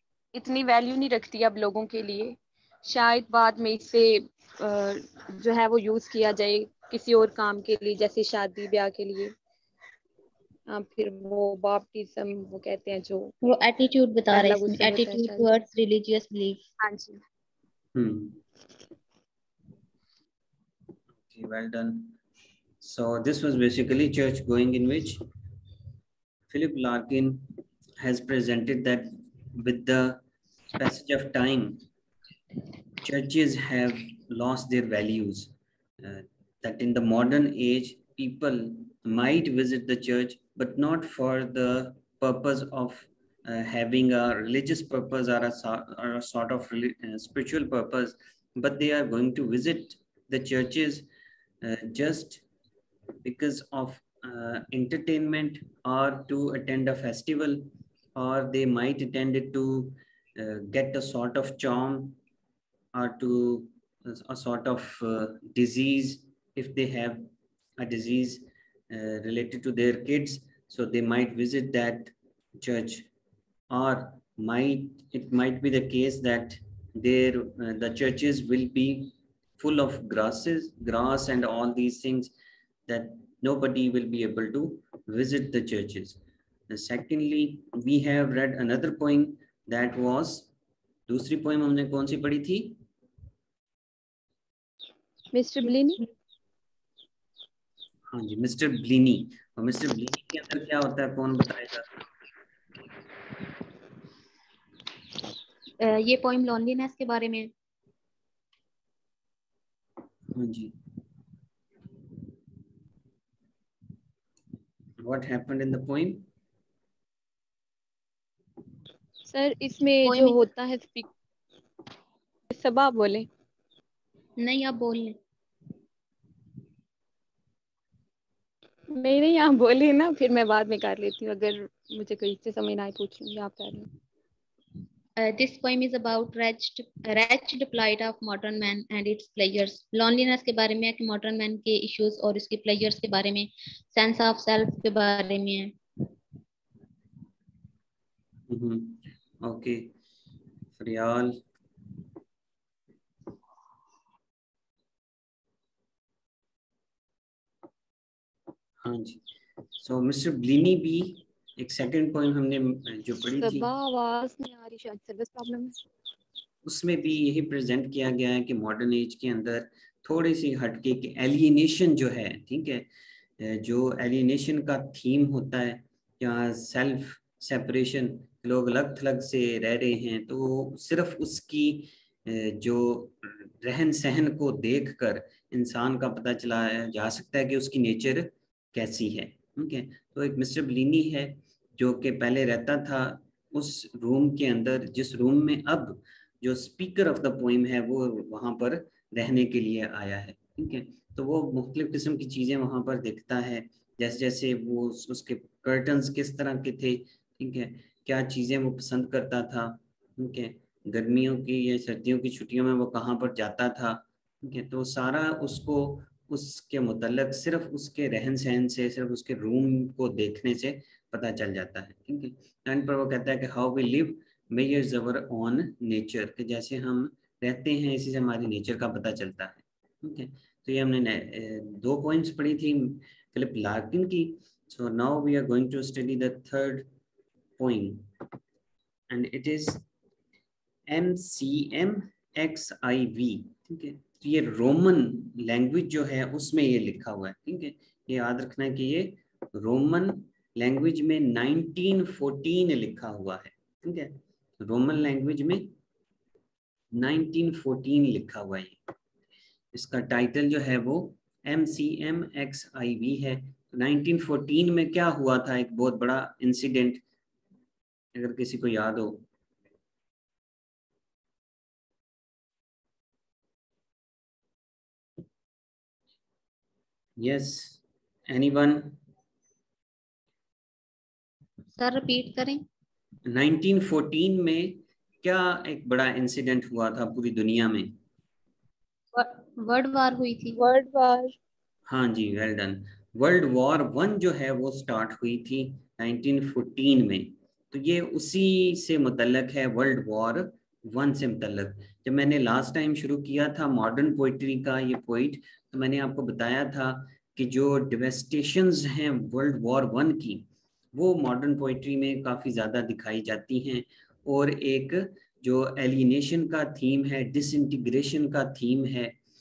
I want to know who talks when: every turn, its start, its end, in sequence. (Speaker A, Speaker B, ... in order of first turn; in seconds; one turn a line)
Speaker A: 0.3-9.3
Speaker A: 10.7-13.4
Speaker B: 13.4-16.6
Speaker A: 14.3-15.5
Speaker A: 16.8-17.2
Speaker C: 17.9-18.4
Speaker C: 21.2-22.2
Speaker C: 22.8-25.2
Speaker C: 26.5-27.4
Speaker C: 28.0-30.2
Speaker C: 30.8-31.8
Speaker C: 33.0-51.1
Speaker C: 51.6-52.4
Speaker C: 53.2-62.2
Speaker C: 62.9-73.1
Speaker C: 73.7-82.3
Speaker C: 82.9-86.2
Speaker C: 86.7-90.5
Speaker C: 91.1-92.8
Speaker A: 95.3-96.1
Speaker C: 98.1-101.9
Speaker B: 105.8-107.5
Speaker C: 110.3-110.7
Speaker C: 115.0-116.2
Speaker A: 119.3-121.1
Speaker B: 120.0-120.4
Speaker A: 122.5-123.3
Speaker B: 124.4-125.2
Speaker A: 128.9-133.9
Speaker B: 135.2-145.7
Speaker C: 148.5-149.9
Speaker C: 150.8-151.4
Speaker C: 158.8-159.2
Speaker C: 159.8-163.7
Speaker A: 163.3-165.8
Speaker C: 166.7-172.9
Speaker C: 173.4-236.9
Speaker C: 237.6-238.1
Speaker C: 239.1-239.8
Speaker C: 240.9-255.7
Speaker C: 256.9-258.8
Speaker C: 259.7-267.0
Speaker C: 268.1-269.2
Speaker C: 277.2-279.0
Speaker B: 281.7-282.6
Speaker C: 283.3-288.0
Speaker B: 289.1-290.6
Speaker A: 290.6-291.4
Speaker C: 291.9-319.2